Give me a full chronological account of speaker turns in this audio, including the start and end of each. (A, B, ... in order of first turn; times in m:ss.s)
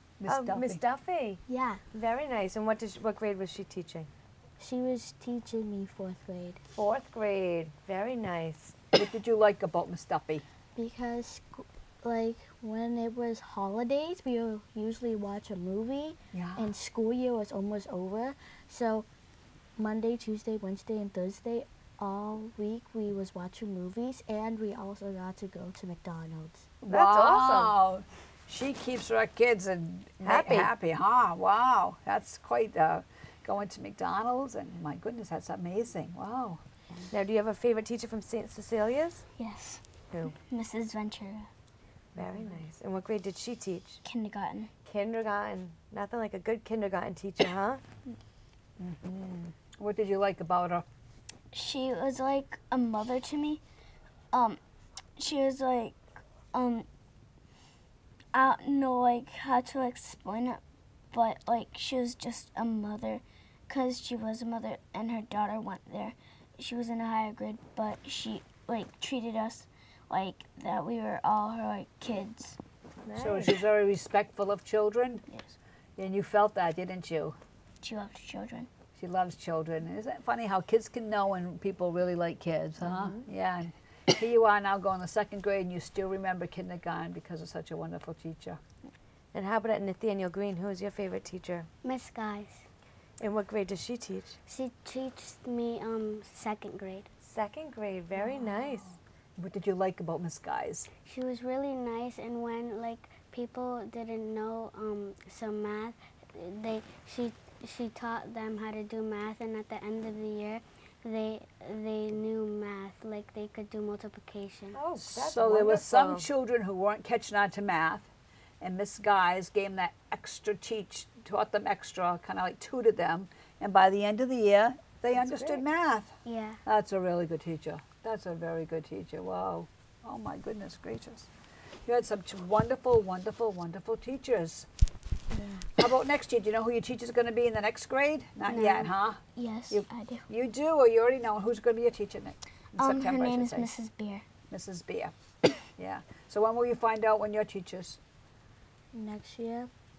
0:00.2-0:00.8 A
0:00.3-0:01.4 B
0:01.5-0:01.8 C
0:01.9-0:04.1 B
0:04.6-0:06.6 C
0:06.7-0:08.8 B
0:08.9-0:10.4 A
0:10.8-0:19.1 C
0:16.3-0:16.7 A
0:19.8-0:26.7 C
0:26.8-0:36.6 A
0:26.9-0:27.7 B
0:30.2-0:30.7 B
0:37.1-0:39.3 B
0:39.4-0:41.5 D
0:42.2-0:42.5 A
0:42.2-0:44.0 B
0:44.0-0:44.7 D
0:44.8-0:47.8 B
0:48.8-0:50.8 A
0:51.5-0:53.6 D
0:54.3-0:54.6 D
0:55.2-0:56.0 D
0:56.5-0:56.9 D
0:58.3-1:00.6 D
1:01.1-1:12.6 D
1:13.0-1:13.5 B
1:13.2-1:15.2 A
1:16.0-1:17.4 A
1:17.8-1:18.7 D
1:19.0-1:28.6 A
1:22.9-1:23.2 B
1:29.3-1:31.7 B
1:31.8-1:32.6 E
1:33.2-1:34.4 B
1:34.5-1:37.1 E
1:37.2-1:38.9 B
1:38.3-1:40.9 A
1:41.0-1:54.8 E
1:54.7-1:56.2 B
1:55.0-1:58.1 A
1:58.6-2:11.3 A
2:05.2-2:05.6 B
2:06.2-2:06.6 E
2:11.9-2:14.7 A
2:15.3-2:15.7 C
2:15.8-2:23.7 A
2:18.4-2:18.9 E
2:19.4-2:20.2 D
2:22.8-2:24.2 D
2:24.5-2:25.1 A
2:25.8-2:28.0 A
2:28.9-2:29.7 C